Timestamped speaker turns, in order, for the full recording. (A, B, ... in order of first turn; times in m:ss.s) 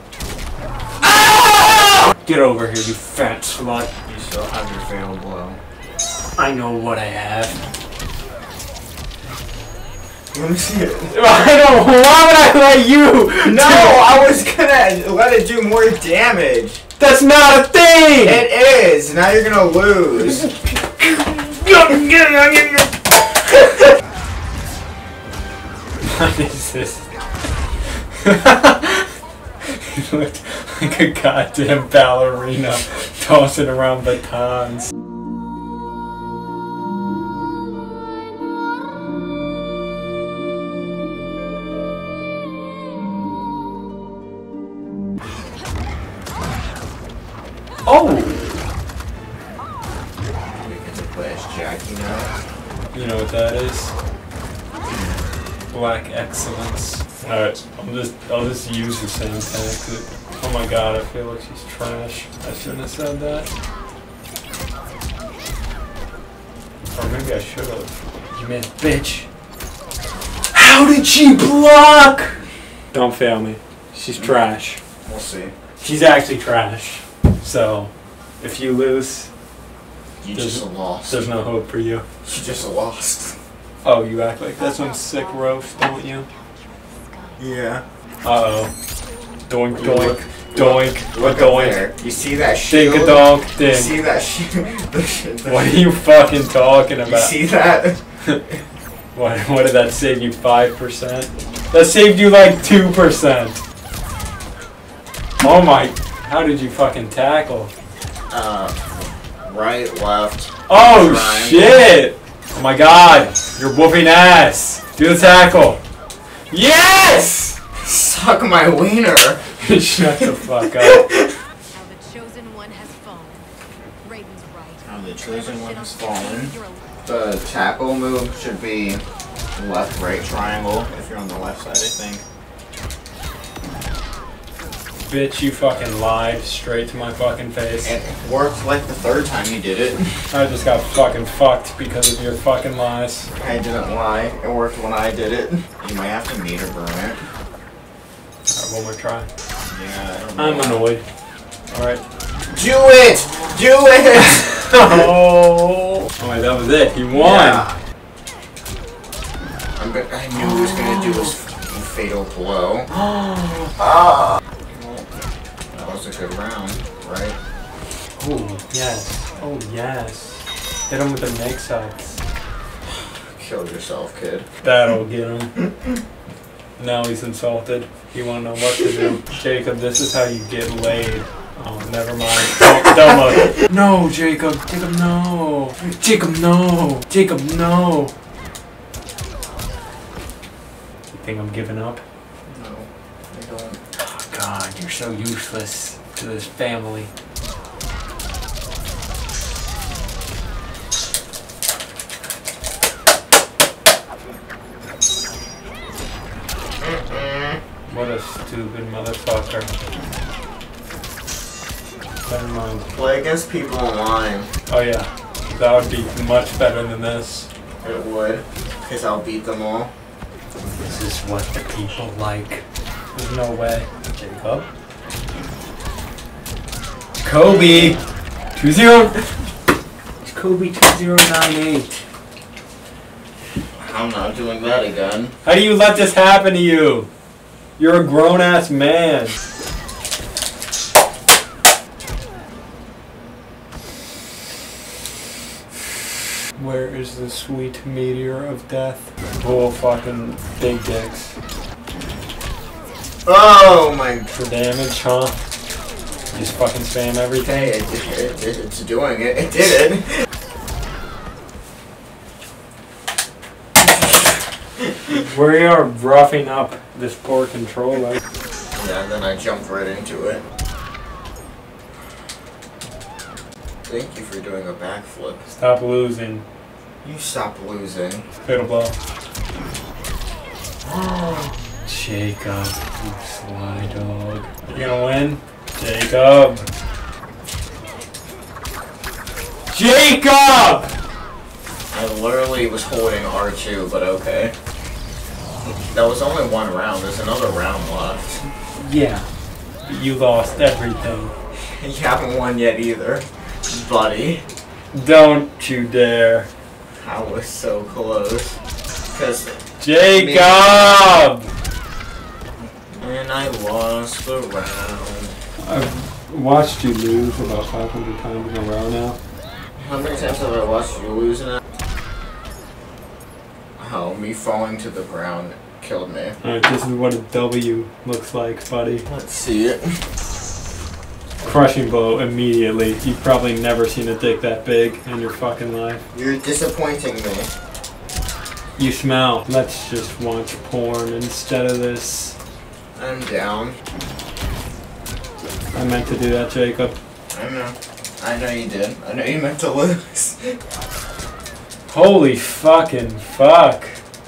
0:01.1-0:03.9 A
0:04.1-0:05.6 B
0:06.4-0:07.6 A
0:10.3-0:11.1 B
0:11.1-0:14.2 A
0:13.4-0:16.8 B
0:17.0-0:18.4 A
0:18.2-0:20.5 B
0:20.4-0:22.8 A
0:21.9-0:22.6 B
0:26.0-0:27.1 A
0:28.2-0:29.1 A
0:29.7-0:34.9 A
0:47.9-0:48.5 A
0:50.6-0:52.3 B
0:52.9-0:54.0 A
0:54.9-0:55.2 B
0:55.7-1:03.5 A
1:06.9-1:09.3 A
1:10.5-1:14.8 A
1:14.2-1:14.4 B
1:15.0-1:15.5 B
1:15.8-1:19.3 A
1:20.2-1:21.2 B
1:20.4-1:22.1 A
1:22.2-1:23.4 B
1:23.8-1:26.3 A
1:27.4-1:27.8 B
1:28.2-1:28.7 A
1:29.5-1:31.9 A
1:29.8-1:35.8 B
1:32.7-1:33.9 A
1:35.5-1:37.4 A
1:37.0-1:38.0 B
1:39.1-1:43.6 A
1:45.4-1:47.7 A
1:48.3-1:48.9 B
1:49.4-1:51.8 B
1:50.7-1:55.8 A
1:56.5-1:57.6 A
1:57.8-1:59.4 B
1:59.5-2:01.1 A
2:00.8-2:01.4 B
2:01.7-2:03.5 C
2:04.0-2:06.9 C
2:04.8-2:09.0 B
2:09.6-2:12.2 B
2:15.1-2:18.0 A
2:17.8-2:20.3 B
2:20.3-2:23.3 A
2:23.4-2:27.2 B
2:28.5-2:29.3 A
2:29.7-2:30.9 B
2:30.4-2:31.0 A
2:31.7-2:32.0 A
2:32.5-2:35.1 B
2:34.3-2:37.7 A
2:37.1-2:37.8 B
2:39.8-2:42.9 B
2:40.4-2:41.4 A
2:42.9-2:43.7 A
2:43.8-2:45.1 B
2:45.7-2:47.4 B
2:48.2-2:52.2 A
2:52.9-2:54.5 B
2:54.6-2:55.6 A
2:56.8-3:08.1 A
3:11.1-3:12.0 A
3:12.5-3:13.8 B
3:13.9-3:17.1 A
3:26.8-3:27.6 B
3:27.9-3:29.7 A
3:32.2-3:32.9 A
3:32.9-3:34.5 B
3:34.7-3:37.5 A
3:37.8-3:39.9 B
3:40.8-3:44.7 A
3:47.2-3:48.0 A
3:47.4-3:48.0 B
3:48.6-3:49.3 A
3:50.2-3:52.0 A
3:53.8-3:55.4 B
3:55.4-3:57.1 A
3:57.8-3:59.4 A
4:06.6-4:11.4 A
4:13.2-4:14.3 B
4:14.3-4:15.4 A
4:16.3-4:17.7 A
4:17.4-4:20.2 B
4:25.1-4:28.2 A
4:28.7-4:30.4 B
4:33.9-4:35.4 B
4:35.5-4:36.4 A
4:37.0-4:38.3 B
4:38.4-4:39.0 A
4:40.8-4:46.7 A
4:49.7-4:50.9 A
4:51.9-4:54.6 B
4:55.9-4:58.4 B
4:58.8-4:59.3 A
4:59.8-5:01.3 A
5:01.8-5:04.5 B
5:04.9-5:06.5 A
5:07.0-5:08.6 B
5:09.1-5:09.6 B
5:09.8-5:11.5 A
5:10.1-5:10.8 B
5:12.7-5:15.4 B
5:15.6-5:19.2 A
5:19.8-5:21.6 B
5:23.8-5:26.4 B
5:26.4-5:29.1 A
5:29.1-5:30.1 B
5:31.4-5:36.1 A
5:36.1-5:37.5 B
5:38.8-5:42.4 A
5:43.0-5:43.8 B
5:45.7-5:47.0 A
5:47.3-5:50.6 B
5:51.9-5:54.0 A